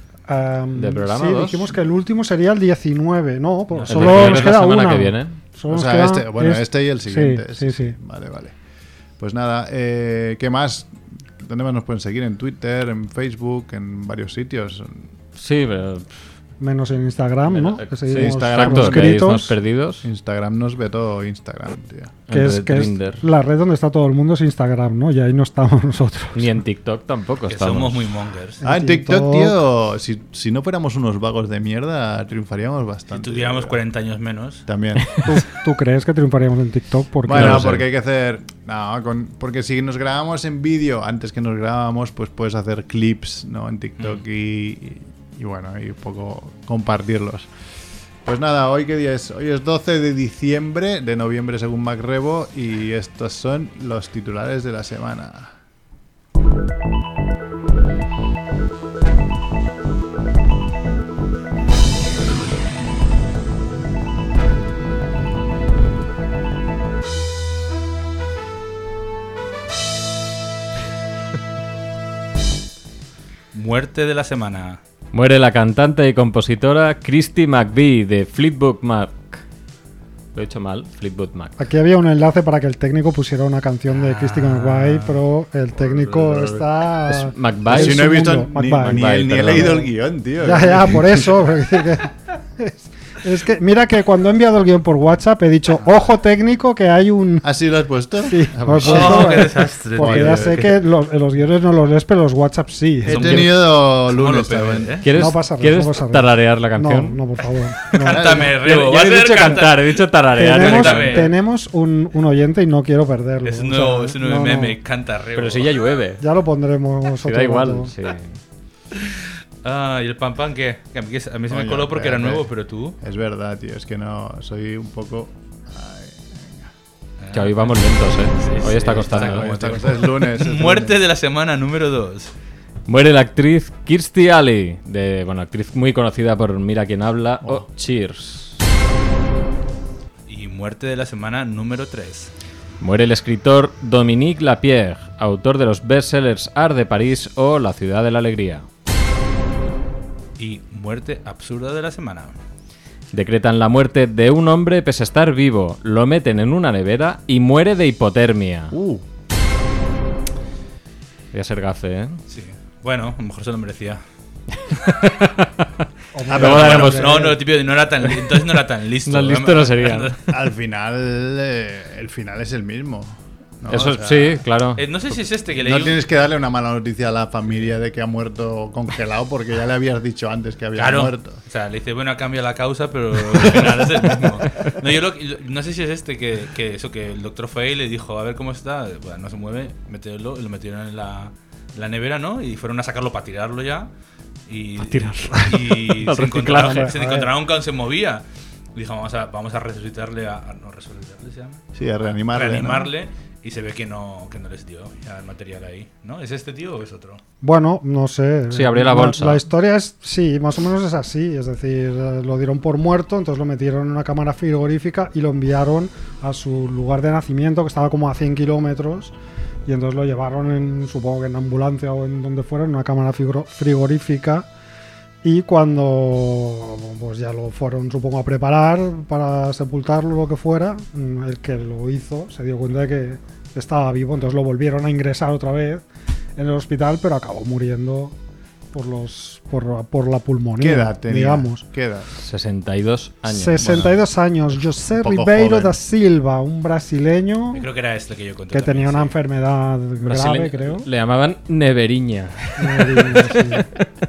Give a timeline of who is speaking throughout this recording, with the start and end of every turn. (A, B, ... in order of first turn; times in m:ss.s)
0:00.3-0:07.9 A
0:00.7-0:01.7 B
0:03.9-0:05.4 B
0:05.7-0:08.5 C
0:09.2-0:15.1 C
0:15.4-0:16.1 B
0:16.6-0:19.6 A
0:17.5-0:20.1 B
0:18.1-0:19.1 C
0:20.0-0:22.2 C
0:22.3-0:23.2 B
0:22.3-0:26.5 A
0:26.3-0:28.1 B
0:27.5-0:28.6 D
0:28.6-0:29.6 A
0:28.6-0:33.8 C
0:33.1-0:34.6 D
0:34.7-0:35.2 C
0:35.2-0:37.7 A
0:37.2-0:47.5 C
0:37.3-0:37.8 B
0:48.2-0:55.5 C
1:13.5-1:14.8 D
1:15.1-1:19.4 B
1:20.3-1:21.5 B
1:21.6-1:29.9 A
1:23.9-1:25.2 D
1:25.8-1:26.6 C
1:27.1-1:29.8 B
1:27.7-1:31.4 C
1:30.4-1:37.5 A
1:37.4-1:40.8 C
1:38.2-1:43.4 A
1:38.8-1:40.7 D
1:43.0-1:45.0 C
1:43.0-1:45.0 D
1:45.0-1:47.2 B
1:45.1-1:48.5 A
1:47.9-1:51.3 D
1:48.1-1:48.6 C
1:48.5-1:51.3 B
1:50.3-1:54.8 A
1:53.4-1:55.7 D
1:55.4-1:56.2 B
1:56.2-1:57.9 A
1:57.2-1:58.4 B
1:59.6-2:03.0 D
2:01.5-2:02.5 C
2:03.0-2:06.7 C
2:07.2-2:07.7 D
2:07.3-2:09.5 B
2:08.4-2:12.3 D
2:08.8-2:11.0 C
2:12.9-2:18.6 B
2:20.3-2:22.3 D
2:22.8-2:28.7 B
2:30.4-2:32.4 D
2:33.1-2:38.7 B
2:38.7-2:39.0 C
2:41.3-2:42.2 B
2:42.3-2:44.0 D
2:44.7-2:45.6 B
2:46.1-2:47.4 A
2:46.3-2:47.2 C
2:46.3-2:47.3 B
2:46.4-2:50.3 D
2:49.1-2:50.1 B
2:50.3-2:54.4 C
2:53.7-2:54.8 B
2:54.8-2:56.0 D
2:55.5-3:01.4 C
3:00.7-3:13.9 D
3:14.5-3:18.2 D
3:14.8-3:16.9 B
3:16.5-3:17.3 A
3:18.7-3:27.2 D
3:21.7-3:22.9 C
3:27.4-3:39.1 A
3:28.5-3:29.4 B
3:39.6-3:44.5 A
3:45.2-3:55.8 A
3:56.4-3:58.1 A
3:58.7-4:01.6 A
4:00.6-4:02.1 C
4:02.2-4:03.9 B
4:03.3-4:07.6 A
4:03.6-4:04.0 C
4:04.5-4:05.8 C
4:07.5-4:09.1 D
4:08.5-4:10.9 A
4:10.0-4:13.6 B
4:12.6-4:13.8 A